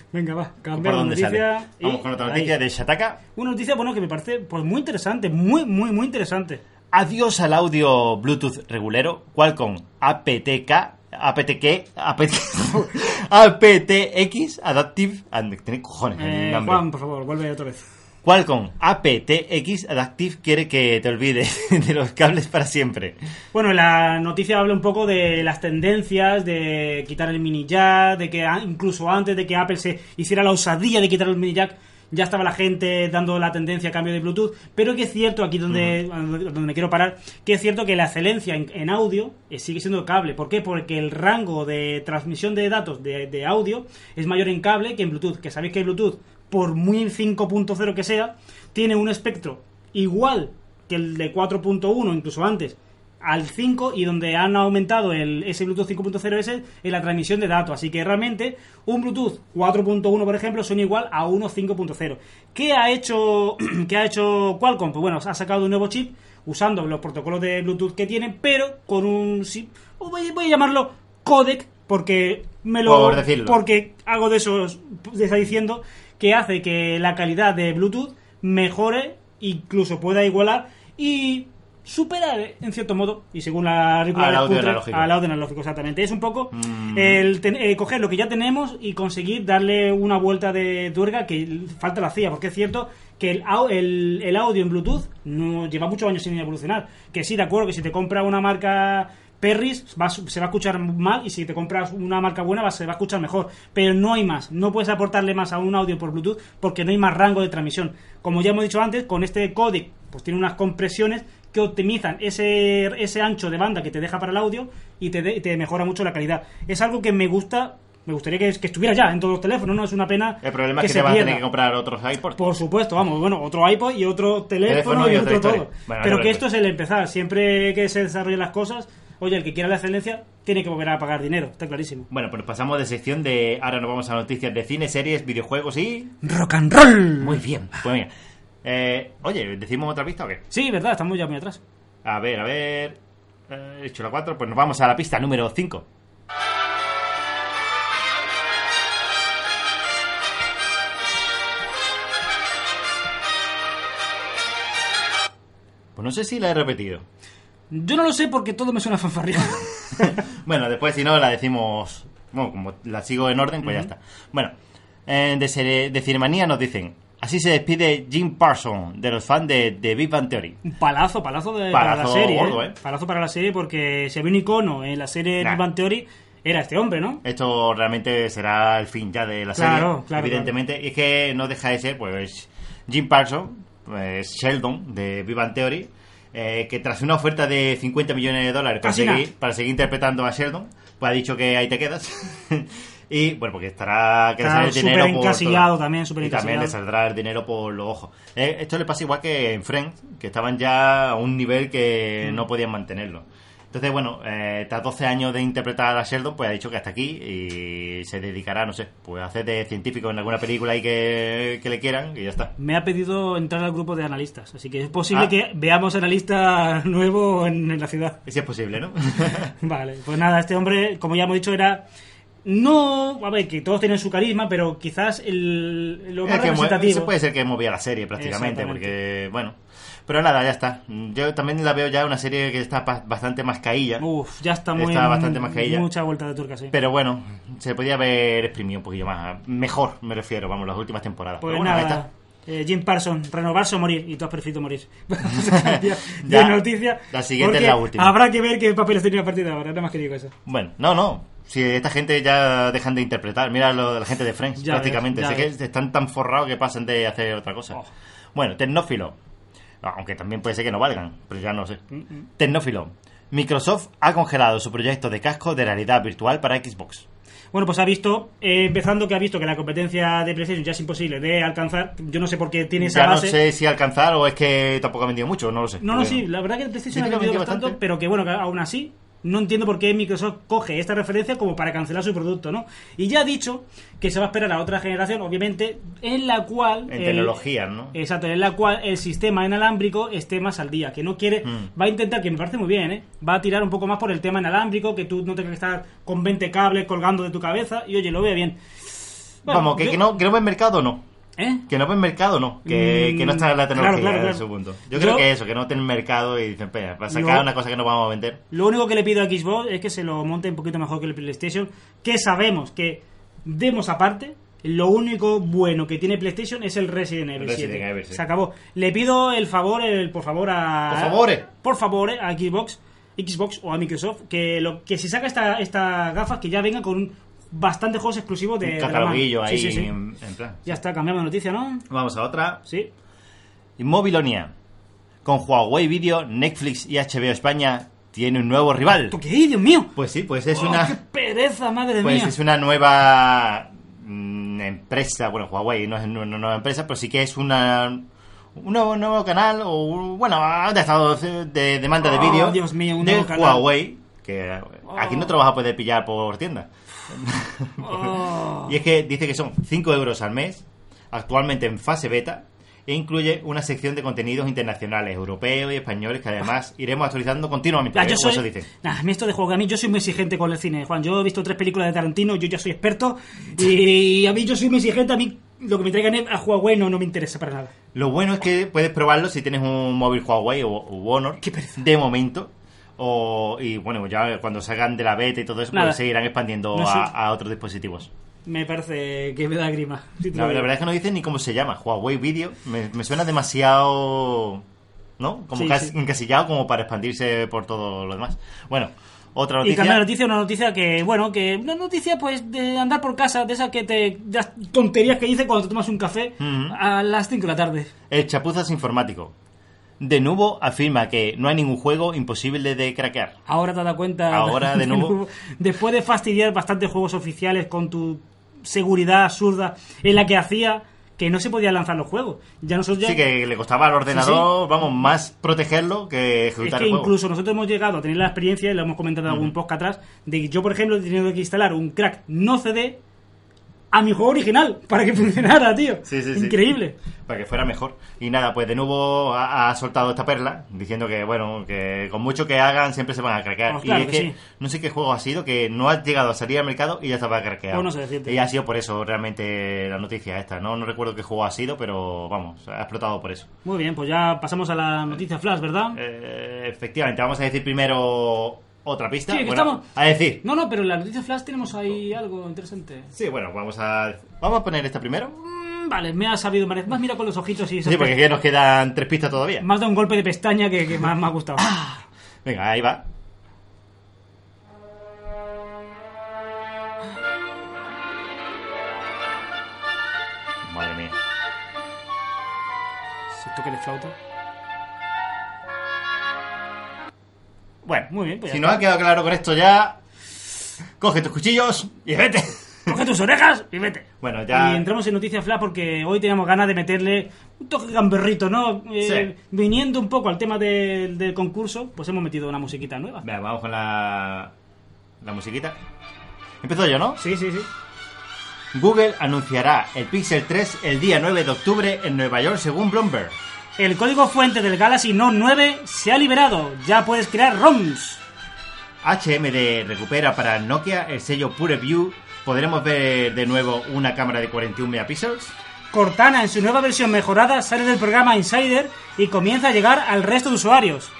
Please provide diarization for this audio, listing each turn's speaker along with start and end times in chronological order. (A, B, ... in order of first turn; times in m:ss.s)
0:00.1-0:02.5 A
0:00.7-0:03.2 B
0:03.3-0:06.6 A
0:06.9-0:16.8 B
0:16.2-0:17.8 A
0:18.2-0:23.2 B
0:23.5-2:01.4 A
0:35.7-0:35.9 B
1:12.8-1:13.6 B
1:24.1-1:25.1 B
1:26.5-1:27.2 B
2:00.4-2:02.4 B
2:02.4-2:12.1 A
2:04.6-2:06.4 B
2:12.1-2:16.1 B
2:16.2-2:17.4 A
2:17.2-2:18.1 B
2:18.6-2:20.4 B
2:20.5-2:21.6 A
2:22.0-2:25.8 B
2:36.0-2:37.0 B
2:37.7-2:40.2 A
2:40.0-2:44.5 B
2:45.0-2:50.6 B
2:50.6-2:57.2 A
2:51.7-2:52.8 B
2:57.2-3:32.5 B
2:59.5-3:00.5 A
3:08.8-3:09.2 A
3:14.4-3:16.7 A
3:32.6-3:38.2 A
3:38.2-3:39.5 B
3:39.6-3:41.8 A
3:42.4-3:47.1 A
3:46.2-3:54.0 B
3:48.2-3:48.9 A
3:54.0-3:56.7 A
3:54.7-3:55.8 B
3:56.7-4:02.0 B
4:01.4-4:10.3 A
4:05.2-4:08.1 B
4:10.4-4:17.8 B
4:14.6-4:15.5 A
4:18.3-4:19.2 B
4:19.8-4:21.8 B
4:22.4-4:27.0 B
4:27.5-4:33.4 A
4:32.8-4:36.2 B
4:35.8-4:47.3 A
4:36.9-4:37.8 B
4:46.9-4:48.0 B
4:47.9-4:58.6 A
4:59.4-5:00.0 A
4:59.5-5:01.0 B
5:01.4-5:01.6 A
5:01.7-5:08.4 B
5:02.6-5:05.2 A
5:07.1-5:07.4 A
5:08.5-5:29.9 A
5:17.4-5:18.2 B
5:20.9-5:21.4 B
5:28.6-5:30.7 B
5:30.6-5:31.8 A
5:31.9-5:32.6 B
5:33.8-5:34.5 B
5:35.2-5:39.1 B
5:39.1-5:39.9 A
5:40.0-5:41.0 B
5:40.5-5:42.3 A
5:42.0-6:08.7 B
5:52.0-5:53.7 A
5:54.9-5:55.3 A
5:57.8-5:58.7 A
6:07.9-6:17.7 A
6:17.9-6:28.1 B
6:21.4-6:21.8 A
6:25.7-6:26.0 A
6:26.7-6:27.1 A
6:28.4-6:30.7 A
6:30.3-6:34.6 B
6:35.2-6:40.0 B
6:35.5-6:35.9 A
6:39.6-6:47.9 A
6:46.4-6:46.8 B
6:48.1-6:49.3 B
6:50.0-6:53.3 B
6:53.5-7:03.2 A
6:54.3-6:55.2 B
7:03.0-7:07.1 B
7:04.1-7:04.5 A
7:06.6-7:13.0 A
7:13.9-7:17.0 A
7:16.0-7:16.7 B
7:17.3-7:33.5 B
7:23.7-7:24.4 A
7:27.7-7:28.4 A
7:33.6-7:36.0 A
7:35.9-7:40.4 B
7:39.3-7:39.8 A
7:40.4-7:43.1 A
7:43.1-7:45.4 B
7:45.4-7:48.2 A
7:47.8-7:49.6 B
7:49.6-7:51.8 A
7:51.6-7:53.0 B
8:00.6-8:01.1 B
8:03.4-8:04.1 A
8:07.8-8:10.0 B
8:08.1-8:08.9 A
8:11.0-8:13.0 B
8:12.9-8:23.2 A
8:14.2-8:14.8 B
8:19.0-8:19.3 B
8:23.2-8:24.5 B
8:25.2-8:25.8 B
8:26.6-8:27.2 B
8:27.2-8:27.7 A
8:28.7-8:33.4 B
8:33.8-8:38.2 A
8:39.0-8:45.5 B
8:45.9-8:51.1 A